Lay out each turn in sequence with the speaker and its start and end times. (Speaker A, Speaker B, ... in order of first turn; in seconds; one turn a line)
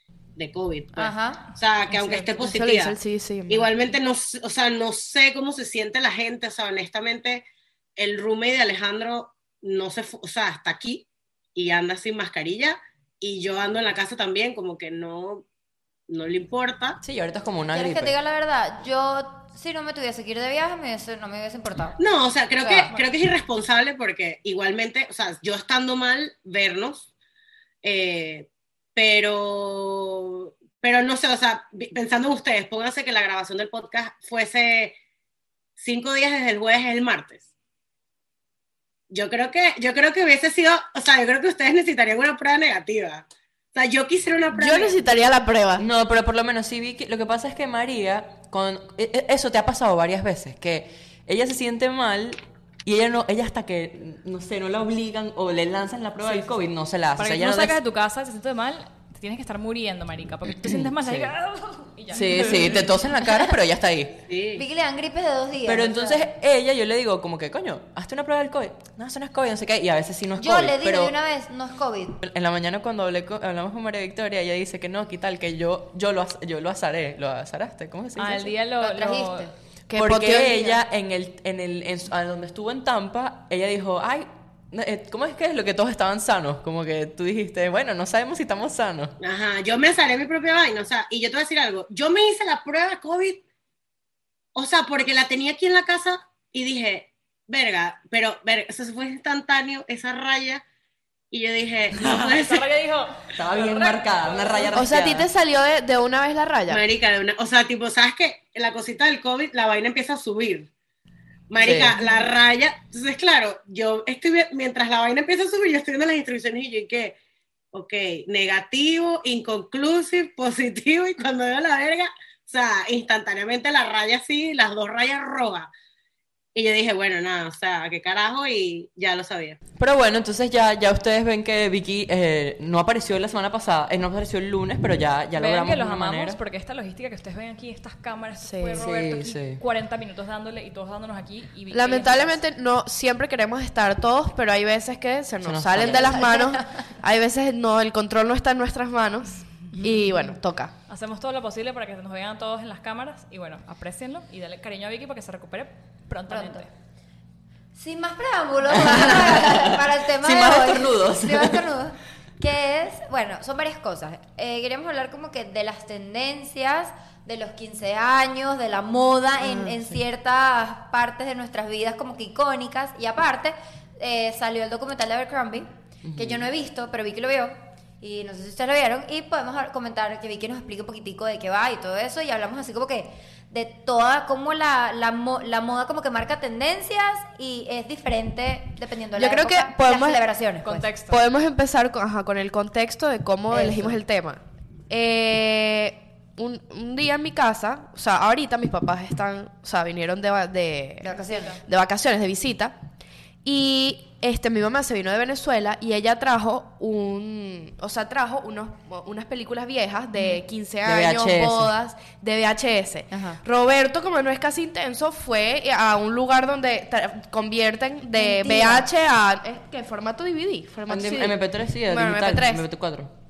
Speaker A: 0.4-2.9
Speaker B: 0.9-1.4
Speaker C: 1.9-2.5
Speaker D: 2.4-3.7
Speaker A: 3.5-7.4
Speaker A: 8.0-15.4
Speaker A: 16.1-17.0
Speaker E: 17.0-18.1
Speaker B: 17.7-22.0
Speaker A: 22.0-27.1
Speaker B: 22.6-22.9
Speaker A: 27.8-35.0
Speaker A: 35.8-37.5
Speaker A: 39.1-45.0
Speaker D: 44.5-45.8
Speaker E: 45.8-57.8
Speaker C: 56.2-56.5
Speaker C: 57.2-62.9
Speaker E: 60.5-61.3
Speaker E: 62.1-64.2
Speaker A: 64.3-64.6
Speaker B: 64.5-66.3
Speaker E: 65.7-71.1
Speaker B: 70.4-72.2
Speaker E: 72.2-78.5
Speaker C: 78.2-79.5
Speaker B: 78.8-79.5
Speaker D: 79.9-80.8
Speaker E: 79.9-89.1
Speaker A: 89.2-93.4
Speaker A: 94.5-100.6
Speaker A: 101.3-102.7
Speaker C: 102.2-104.8
Speaker E: 103.3-105.3
Speaker D: 104.7-106.8
Speaker A: 106.7-110.7
Speaker A: 111.5-117.2
Speaker E: 111.6-112.0
Speaker A: 117.7-125.7
Speaker A: 126.5-129.6
Speaker E: 129.8-136.4
Speaker C: 135.3-142.4
Speaker D: 138.4-138.9
Speaker E: 138.8-139.6
Speaker D: 141.7-150.7
Speaker E: 145.4-146.2
Speaker B: 145.8-146.8
Speaker C: 150.9-156.7
Speaker B: 156.3-156.6
Speaker B: 157.7-190.9
Speaker E: 158.7-161.7
Speaker E: 176.0-176.5
Speaker D: 189.2-190.2
Speaker C: 190.6-191.2
Speaker D: 191.1-202.8
Speaker B: 193.5-194.0
Speaker B: 201.0-201.6
Speaker D: 203.4-222.6
Speaker E: 210.8-211.7
Speaker B: 213.1-213.4
Speaker B: 218.1-218.8
Speaker E: 220.9-223.1